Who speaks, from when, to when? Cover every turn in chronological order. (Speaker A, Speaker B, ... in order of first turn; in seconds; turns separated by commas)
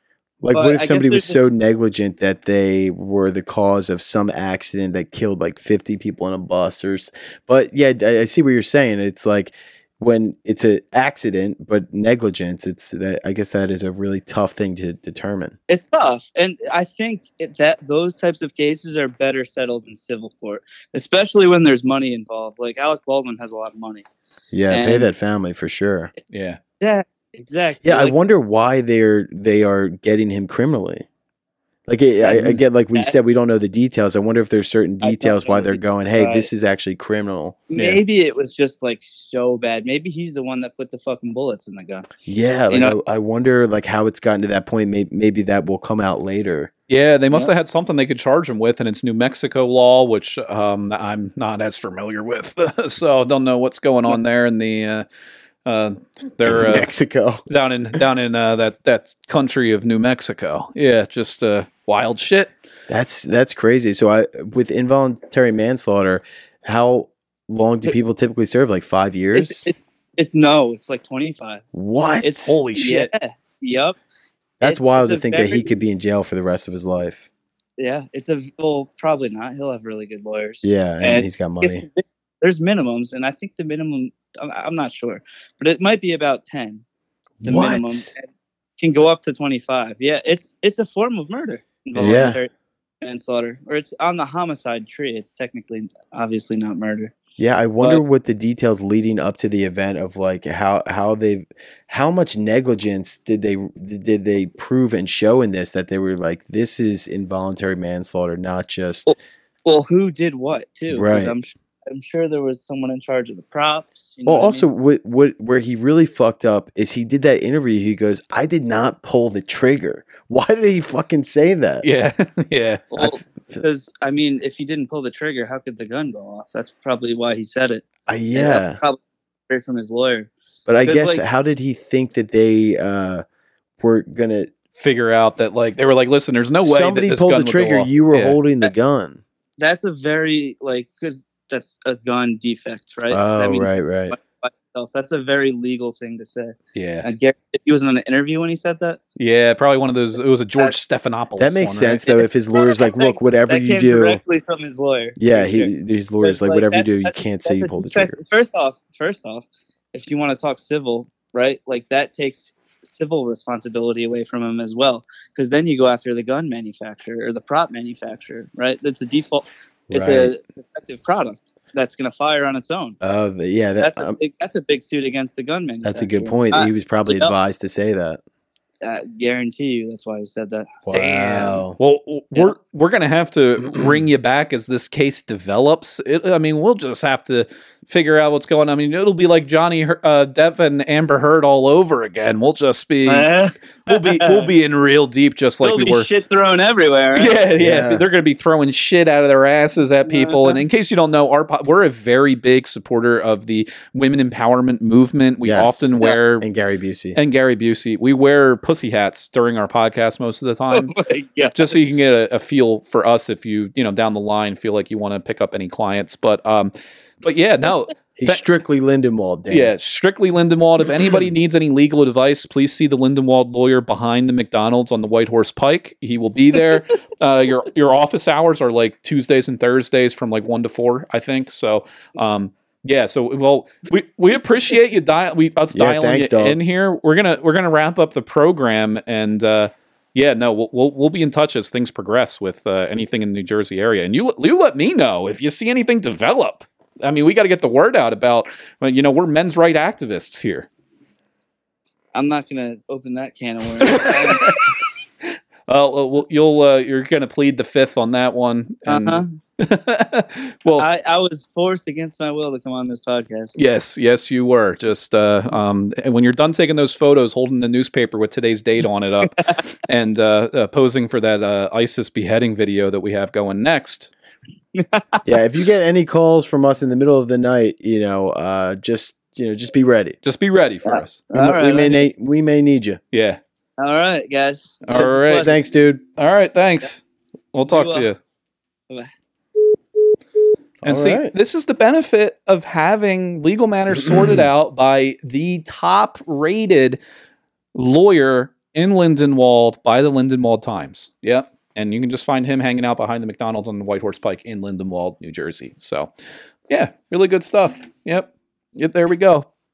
Speaker A: 0.4-15.6, Speaker B: 0.5-1.4, Speaker B: 15.7-24.0, Speaker A: 24.5-26.1, Speaker B: 24.7-25.1, Speaker C: 26.3-26.6, Speaker B: 26.8-28.1, Speaker A: 27.8-31.1, Speaker A: 31.9-38.0, Speaker B: 32.2-33.1, Speaker B: 35.0-36.5, Speaker B: 37.7-42.1, Speaker A: 42.2-46.7, Speaker B: 42.7-43.0, Speaker C: 46.9-55.0, Speaker C: 55.6-56.9, Speaker A: 56.4-57.4, Speaker C: 57.5-62.5, Speaker A: 62.9-69.7, Speaker B: 69.3-71.6, Speaker A: 71.7-72.6, Speaker B: 72.2-74.0, Speaker C: 72.5-73.1, Speaker A: 74.6-77.2, Speaker B: 74.6-75.7, Speaker B: 77.8-86.8, Speaker A: 80.6-81.8, Speaker A: 87.4-88.1, Speaker B: 87.4-88.2, Speaker B: 88.8-92.5, Speaker A: 92.0-92.4, Speaker B: 93.0-97.1, Speaker A: 97.4-109.1, Speaker B: 109.1-114.7, Speaker A: 110.9-111.3, Speaker A: 114.2-121.8, Speaker C: 121.8-122.8, Speaker B: 122.9-129.0, Speaker A: 123.0-123.6, Speaker A: 128.1-128.8, Speaker B: 129.5-130.3, Speaker A: 130.7-133.2, Speaker B: 130.8-131.2, Speaker A: 133.8-134.5, Speaker C: 134.7-138.4, Speaker A: 136.6-139.2, Speaker B: 139.6-149.0, Speaker A: 143.1-144.2, Speaker C: 146.7-147.1, Speaker C: 149.2-152.0, Speaker A: 151.4-154.2, Speaker B: 152.1-155.7, Speaker A: 155.2-158.2, Speaker B: 156.2-173.0, Speaker A: 169.9-170.3, Speaker A: 173.0-174.2, Speaker B: 173.8-177.3, Speaker A: 175.8-178.2, Speaker B: 178.8-180.8, Speaker A: 180.8-181.8, Speaker C: 180.9-193.3, Speaker B: 193.1-194.5, Speaker C: 193.9-196.1, Speaker B: 195.6-197.4, Speaker C: 197.2-206.4, Speaker A: 197.6-198.0, Speaker B: 200.1-200.6, Speaker A: 205.4-207.2, Speaker C: 207.1-210.9, Speaker B: 210.7-211.8, Speaker C: 211.5-218.4, Speaker A: 218.2-219.7, Speaker C: 219.5-250.7, Speaker A: 235.7-236.6, Speaker B: 252.1-254.6, Speaker C: 253.8-254.6, Speaker C: 255.2-260.9, Speaker B: 258.9-259.3, Speaker B: 260.8-263.5, Speaker C: 263.6-274.1, Speaker B: 274.7-275.2, Speaker A: 275.2-280.2, Speaker C: 280.2-281.2, Speaker B: 280.9-282.0, Speaker A: 281.3-283.0, Speaker C: 283.1-283.4, Speaker B: 283.8-285.5, Speaker C: 284.8-285.5, Speaker A: 285.4-286.0, Speaker C: 286.2-287.0, Speaker C: 287.5-288.2, Speaker B: 287.6-288.1, Speaker C: 290.8-297.0, Speaker A: 290.8-291.3, Speaker A: 294.1-294.4, Speaker C: 297.7-306.1, Speaker C: 306.7-309.5